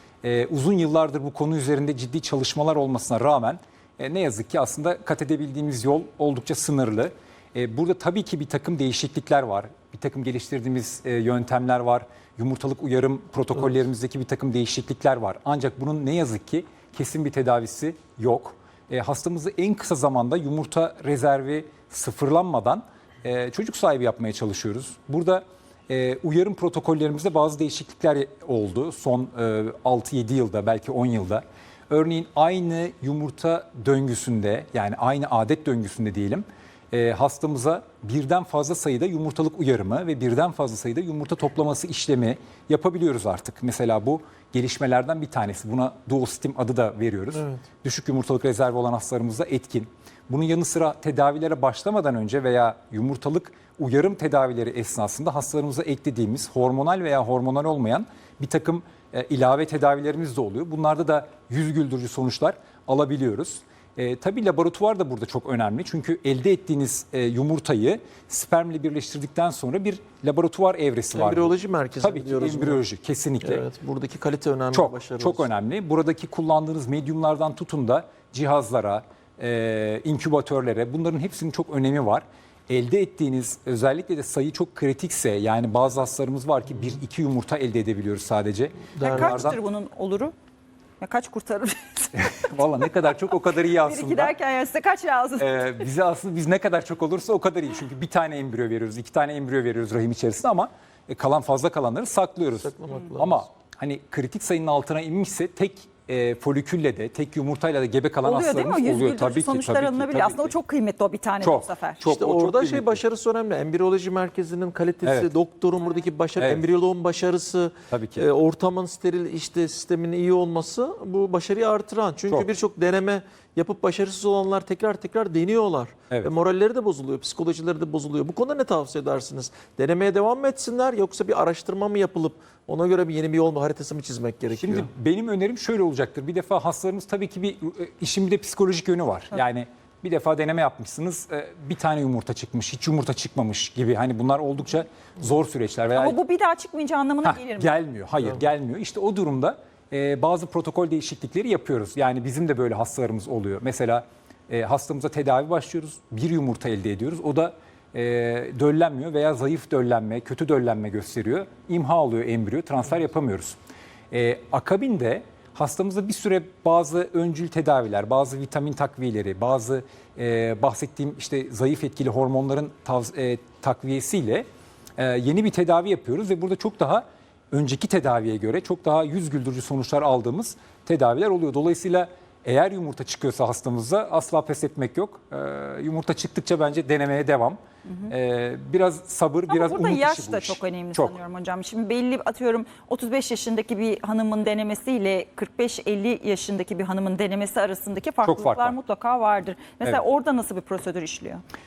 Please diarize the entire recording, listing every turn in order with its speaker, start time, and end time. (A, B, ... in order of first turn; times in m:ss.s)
0:00.2-1:13.6 A
0:47.3-0:47.6 B
1:11.1-1:12.8 B
1:13.4-1:15.5 B
1:14.7-1:29.6 A
1:29.0-1:29.6 B
1:29.0-1:30.3 C
1:31.0-1:32.3 C
1:32.2-1:34.4 A
1:33.6-1:35.6 C
1:35.4-1:50.6 A
1:42.6-1:43.4 B
1:48.2-1:52.1 C
1:51.4-1:53.0 A
1:52.0-2:14.9 B
1:55.0-1:55.3 A
1:56.4-1:56.7 A
1:57.9-1:58.2 A
2:14.6-2:26.2 A
2:26.0-2:27.7 C
2:27.2-2:43.6 A
2:44.1-2:54.5 A
2:55.0-3:11.2 A
3:07.9-3:08.1 C
3:09.5-3:21.4 C
3:18.2-3:18.8 A